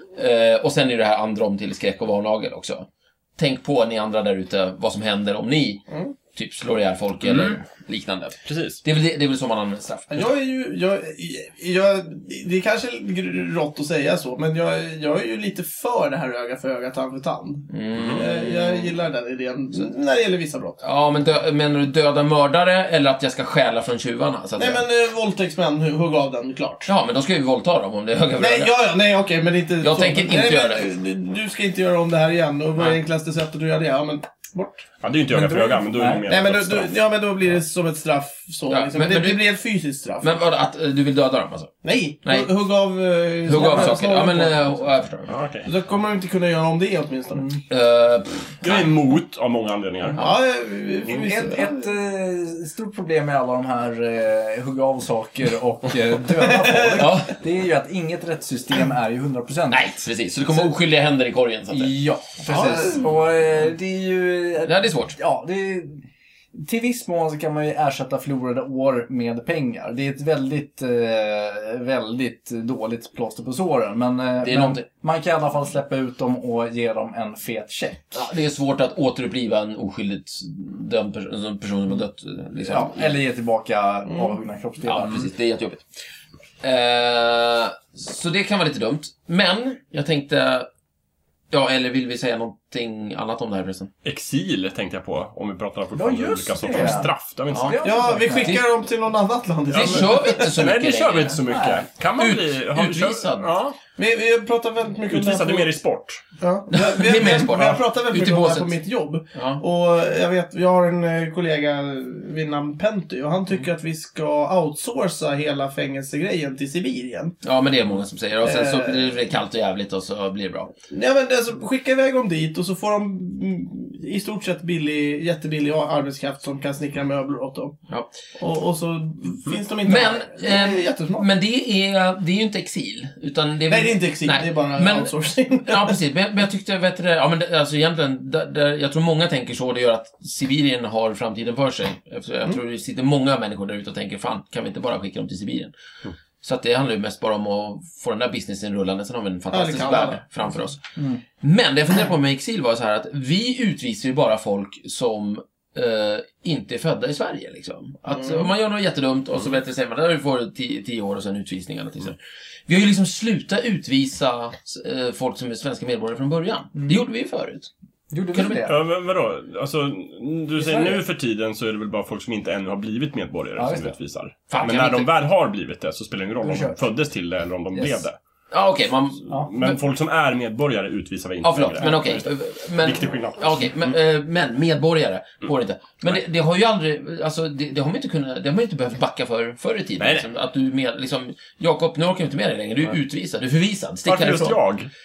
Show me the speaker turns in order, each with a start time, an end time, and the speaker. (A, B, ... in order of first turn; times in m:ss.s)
0:00.1-0:10.2 A
0:07.3-0:07.5 B
0:08.5-0:08.8 B
0:10.1-0:20.8 C
0:17.7-0:18.9 A
0:17.9-0:18.3 B
0:20.8-0:24.8 A
0:24.6-0:26.9 C
0:26.9-0:28.8 A
0:28.4-0:34.9 C
0:29.8-0:30.9 A
0:35.0-0:36.9 B
0:35.3-0:36.3 D
0:36.3-0:40.4 C
0:38.7-0:39.5 A
0:40.2-0:42.5 A
0:41.8-0:44.8 C
0:43.4-0:45.3 A
0:43.6-0:43.9 D
0:45.3-0:45.7 B
0:45.6-0:47.5 C
0:47.7-0:48.9 A
0:48.6-0:50.2 B
0:50.2-0:51.9 C
0:51.0-1:00.7 D
0:56.5-0:57.1 C
0:57.0-0:57.3 A
0:59.7-1:02.0 A
1:01.7-1:18.2 D
1:02.5-1:03.0 C
1:04.6-1:05.2 A
1:14.4-1:14.8 A
1:18.1-1:23.2 A
1:22.6-1:25.3 D
1:24.8-1:25.8 A
1:26.6-1:30.7 A
1:31.5-1:33.9 A
1:34.0-1:37.8 B
1:35.9-1:38.6 D
1:37.5-1:38.6 A
1:37.8-1:40.5 C
1:39.7-1:41.5 A
1:39.7-1:43.8 B
1:41.5-1:41.9 D
1:42.2-1:43.5 A
1:44.0-1:45.7 C
1:45.1-1:46.2 B
1:46.4-1:57.4 C
1:46.7-1:48.8 A
1:49.3-1:49.6 A
1:57.4-2:00.7 A
1:58.4-1:59.2 C
2:00.9-2:07.8 C
2:08.4-2:11.2 C
2:09.8-2:25.7 A
2:13.7-2:16.0 C
2:26.4-2:30.8 A
2:29.5-2:30.2 C
2:31.0-2:31.2 D
2:31.4-2:42.2 A
2:38.1-2:38.5 C
2:42.7-2:47.7 A
2:46.8-2:47.0 D
2:48.1-2:48.8 D
2:48.3-2:48.7 A
2:48.6-2:58.2 B
2:50.6-2:51.0 D
2:53.6-2:54.0 D
2:54.5-2:55.1 A
2:56.4-2:56.8 D
2:57.7-2:58.1 D
2:58.5-2:59.8 A
2:59.3-3:04.0 B
3:01.4-3:14.6 A
3:10.0-3:10.3 B
3:14.0-3:14.9 B